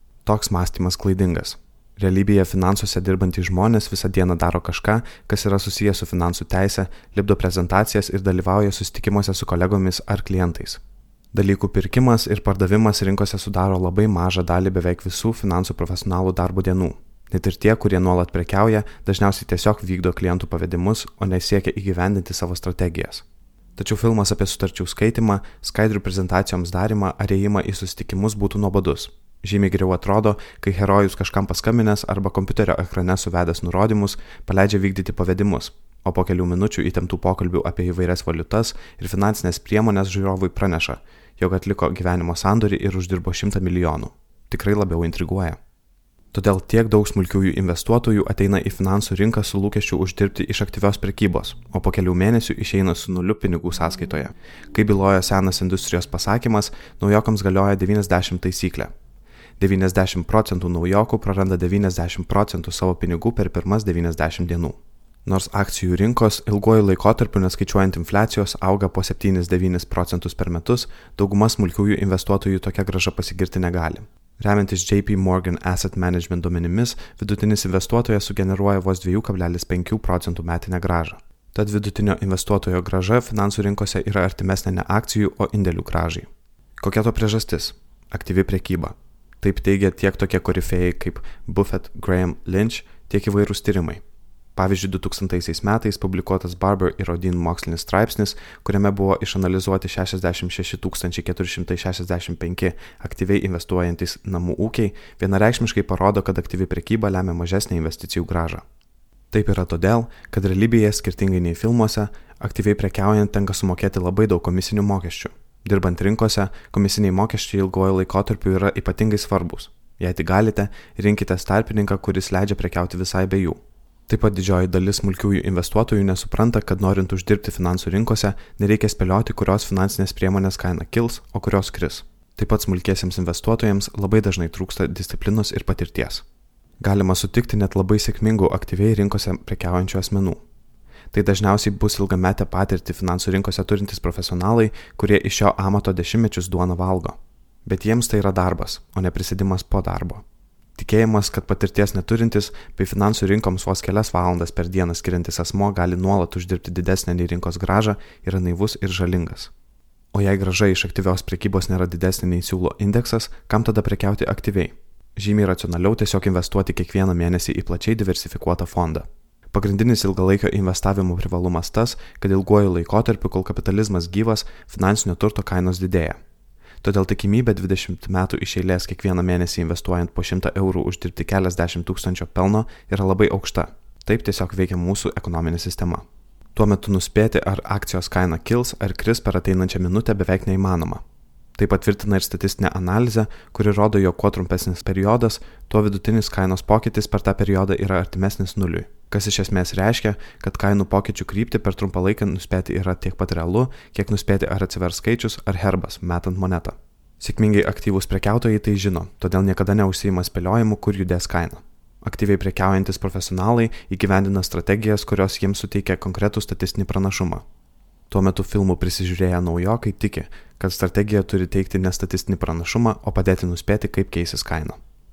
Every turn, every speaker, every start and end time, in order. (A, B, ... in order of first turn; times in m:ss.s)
0:00.2-0:10.8 A
0:11.3-0:23.2 A
0:23.8-0:45.6 A
0:46.3-0:58.9 A
0:59.6-1:26.3 A
1:26.8-1:34.0 A
1:34.6-1:48.6 A
1:49.3-2:16.2 A
2:16.8-2:20.4 A
2:21.1-2:30.2 A
2:30.8-2:39.5 A
2:40.1-2:56.2 A
2:56.8-3:11.0 A
3:11.6-3:37.4 A
3:38.1-3:44.8 A